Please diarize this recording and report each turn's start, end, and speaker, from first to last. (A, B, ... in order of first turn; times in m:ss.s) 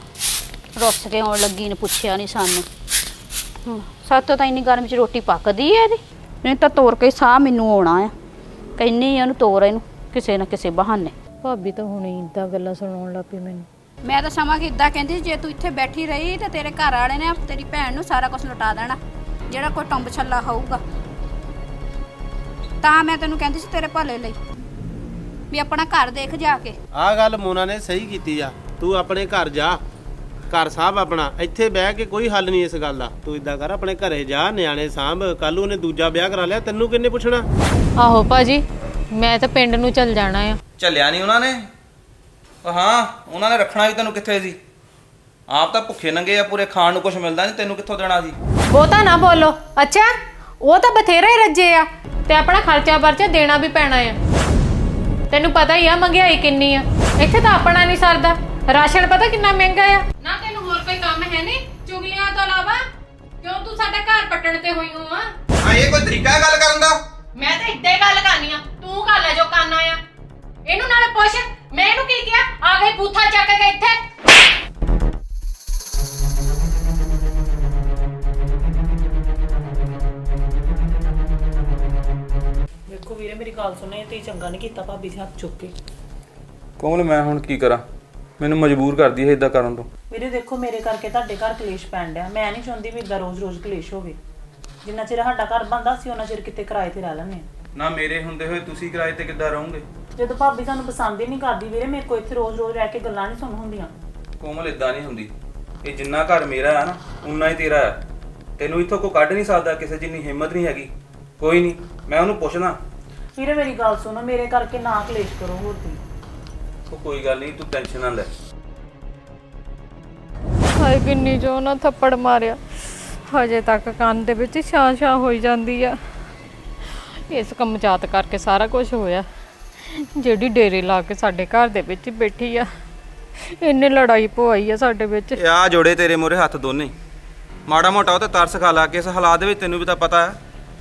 0:00.8-0:02.7 A
0:03.7-0:08.1 A
0:08.8-0:11.1 A
0:11.4-0:13.7 B
0:14.0-0:19.0 A
0:19.5-0:20.8 A
0:22.8-0:24.4 A
0:25.5-0:26.8 A
0:27.0-0:29.8 C
0:30.5-0:37.5 C
0:38.0-0:38.6 B
0:39.2-0:40.6 B
0:40.8-0:41.7 D
0:42.6-0:44.6 D
0:45.5-0:48.4 D
0:48.7-0:50.1 B
0:50.6-0:54.2 B
0:55.3-1:02.8 B
1:03.4-1:05.3 B
1:05.6-1:07.0 D
1:07.4-1:10.0 B
1:10.7-1:14.0 B
1:22.9-1:25.7 E
1:26.8-1:27.8 D
1:28.4-1:29.9 D
1:30.1-1:34.2 E
1:34.8-1:37.5 E
1:37.8-1:39.8 D
1:40.2-1:43.9 E
1:44.4-1:45.3 D
1:45.8-1:48.0 D
1:48.6-1:52.8 D
1:53.4-1:56.0 E
1:56.9-1:58.3 D
2:00.8-2:02.6 B
2:03.1-2:06.0 B
2:07.3-2:09.3 B
2:09.8-2:12.7 B
2:13.5-2:15.4 B
2:15.4-2:16.9 D
2:17.7-2:20.4 D